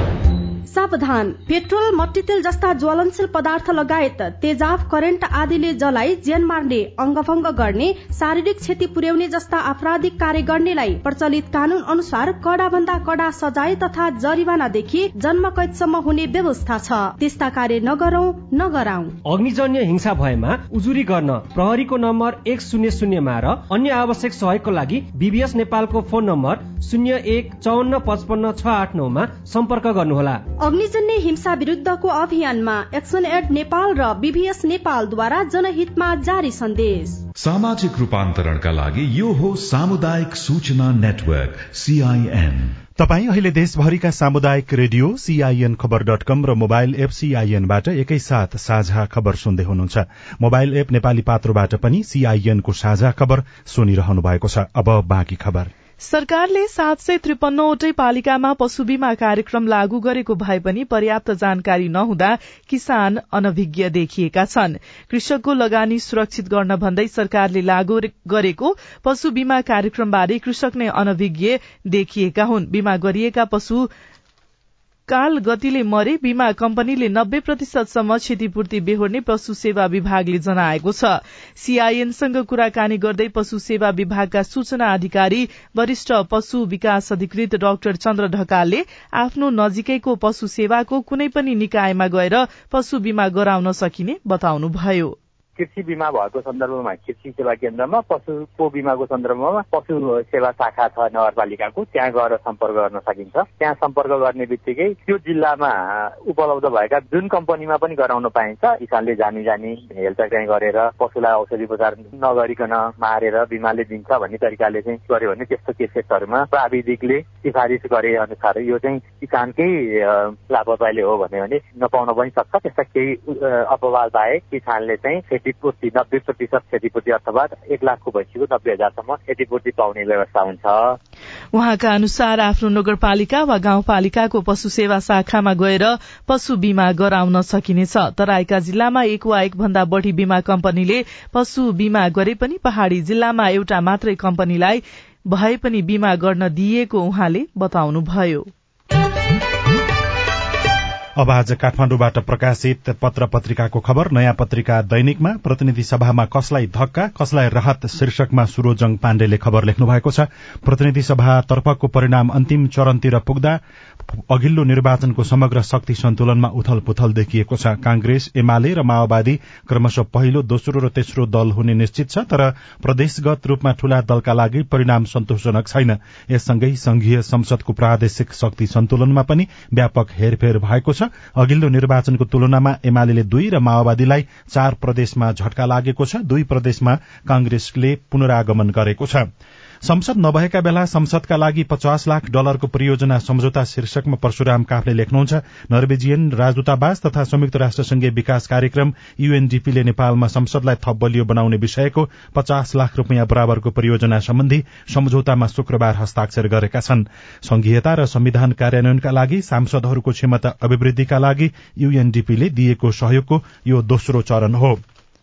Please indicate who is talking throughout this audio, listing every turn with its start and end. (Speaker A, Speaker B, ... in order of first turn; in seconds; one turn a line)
Speaker A: 0.7-19.2
Speaker B: 19.3-30.4
Speaker A: 30.6-37.2
Speaker C: 37.4-42.8
Speaker D: 43.0-55.7
Speaker E: 56.0-73.9
Speaker E: 75.1-95.2
Speaker F: 95.6-131.0
Speaker E: 131.5-148.5
Speaker D: 151.2-163.6
Speaker D: 164.1-189.3
Speaker D: 189.8-214.8